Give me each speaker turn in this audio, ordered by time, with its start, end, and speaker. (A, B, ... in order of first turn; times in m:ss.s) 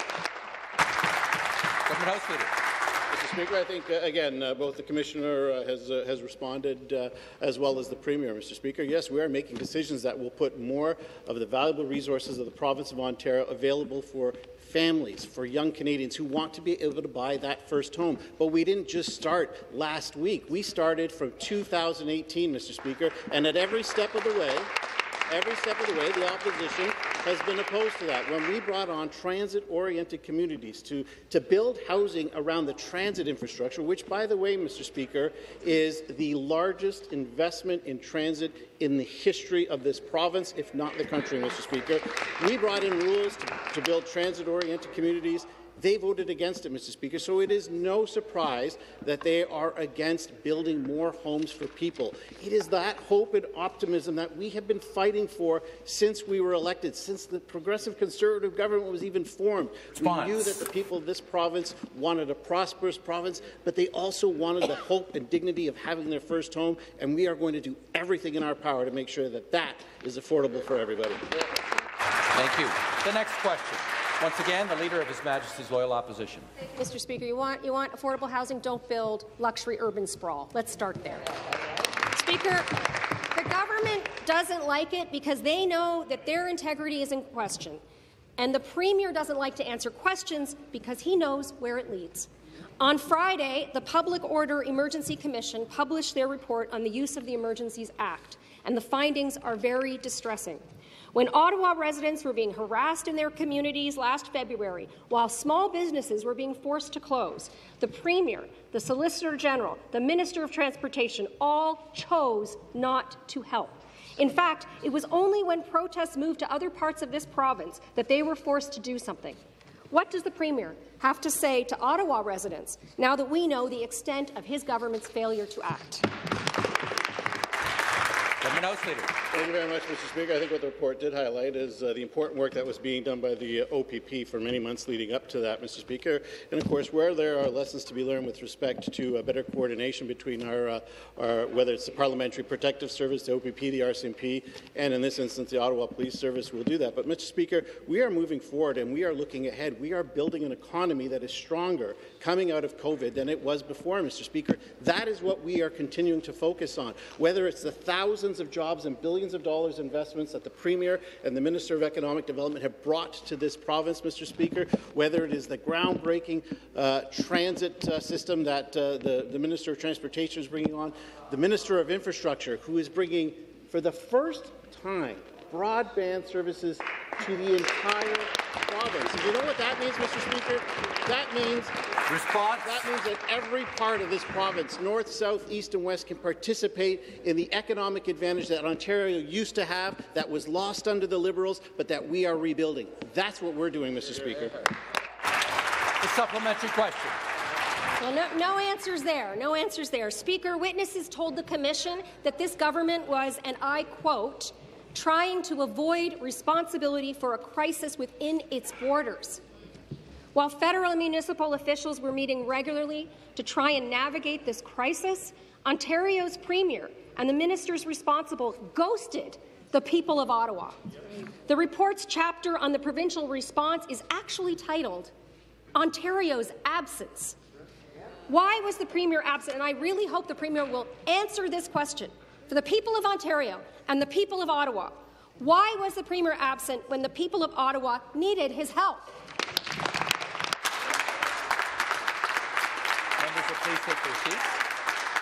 0:01.9-0:02.6 A
0:03.1-0:24.7 B
0:25.3-1:11.3 B
1:00.0-1:00.6 A
1:12.3-1:16.5 A
1:16.8-1:21.3 C
1:22.1-1:22.7 C
1:23.3-1:27.8 C
1:28.4-1:32.3 C
1:32.8-2:06.1 C
2:08.4-2:09.2 A
2:09.3-3:01.8 B
3:02.1-3:02.8 A
3:02.6-3:14.7 B
3:16.0-3:17.2 A
3:18.0-3:29.4 C
3:30.3-3:40.8 C
3:41.5-3:45.1 C
3:45.8-3:47.4 C
3:48.3-3:59.1 C
4:03.2-4:04.6 A